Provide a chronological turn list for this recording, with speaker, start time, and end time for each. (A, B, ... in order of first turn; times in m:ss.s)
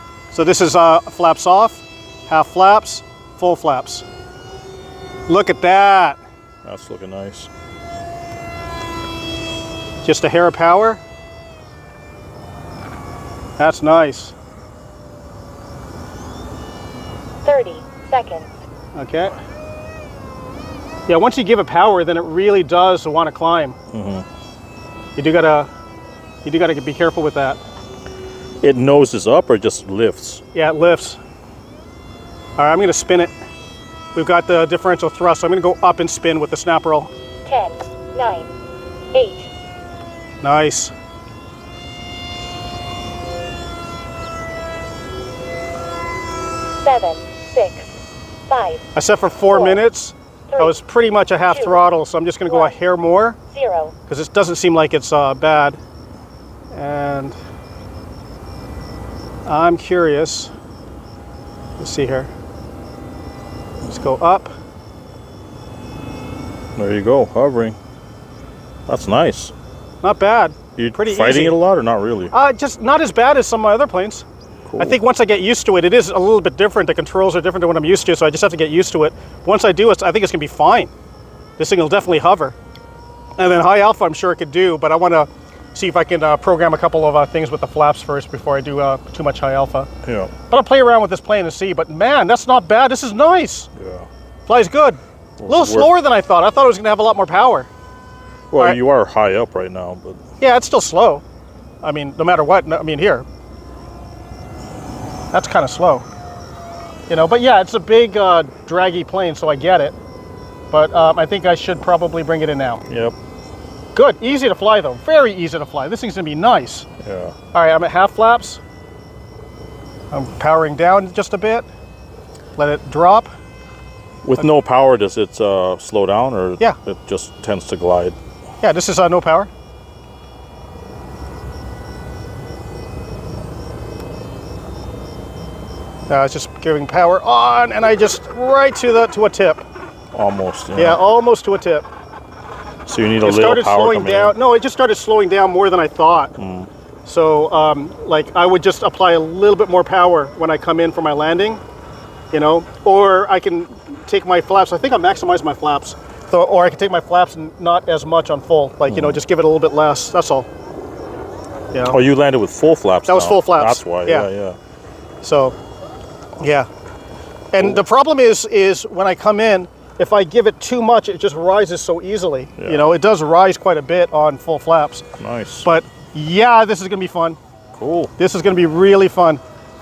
0:00.3-0:04.1 A
0:05.3-0:06.2 A
0:06.6-0:07.5 B
0:10.0-0:11.0 A
0:13.6-0:14.3 A
0:17.4-0:18.5 C
0:18.9-0:19.4 A
0:21.1-0:23.8 A
0:23.9-0:24.3 B
0:25.2-0:25.7 A
0:26.4-0:27.6 A
0:28.6-0:30.4 B
0:30.5-0:31.2 A
0:32.6-0:33.3 A
0:34.2-0:37.1 A
0:37.5-0:38.5 C
0:39.1-0:39.5 C
0:40.4-0:40.9 A
0:46.8-0:47.9 C
0:48.5-0:48.8 C
0:49.0-0:53.4 A
0:49.5-0:49.8 C
0:51.5-0:51.8 C
0:52.5-0:52.7 C
0:53.5-0:54.0 C
0:54.1-0:55.8 A
0:56.7-0:57.4 A
0:59.5-1:00.5 A
1:01.8-1:02.3 A
1:03.8-1:04.5 A
1:06.8-1:07.8 B
1:08.9-1:09.5 B
1:10.0-1:11.6 A
1:10.8-1:12.3 B
1:12.3-1:14.2 A
1:14.7-1:15.0 B
1:14.8-1:20.9 A
1:21.6-1:22.6 A
1:23.4-1:29.9 A
1:30.0-1:30.3 B
1:30.5-1:33.7 A
1:33.8-1:34.1 B
1:34.5-1:37.7 A
1:35.4-1:35.9 B
1:38.5-1:40.2 B
1:40.4-1:41.2 A
1:41.8-1:43.2 A
1:45.3-1:46.1 A
1:47.1-1:50.0 A
1:50.7-1:52.8 A
1:52.9-1:53.2 B
1:54.0-1:56.9 A
1:57.0-1:57.3 B
1:57.5-1:58.6 A
2:00.1-2:01.7 A
2:02.6-2:03.3 A
2:04.2-2:08.2 B
2:08.6-2:09.5 A
2:16.1-2:19.6 A
2:20.1-2:21.0 B
2:20.8-2:21.9 A
2:22.9-2:24.4 B
2:23.2-2:26.4 A
2:26.4-2:26.7 B
2:27.1-2:31.6 A
2:32.3-2:40.5 A
2:38.9-2:39.2 B
2:41.7-2:42.0 A
2:41.8-2:44.6 B
2:43.0-2:44.3 A
2:45.2-2:45.6 A
2:46.4-2:46.7 A
2:47.5-2:55.0 A
2:52.6-2:52.8 B
2:55.2-2:55.7 B
2:55.6-2:57.4 A
2:57.8-2:58.1 B
2:58.2-2:59.4 A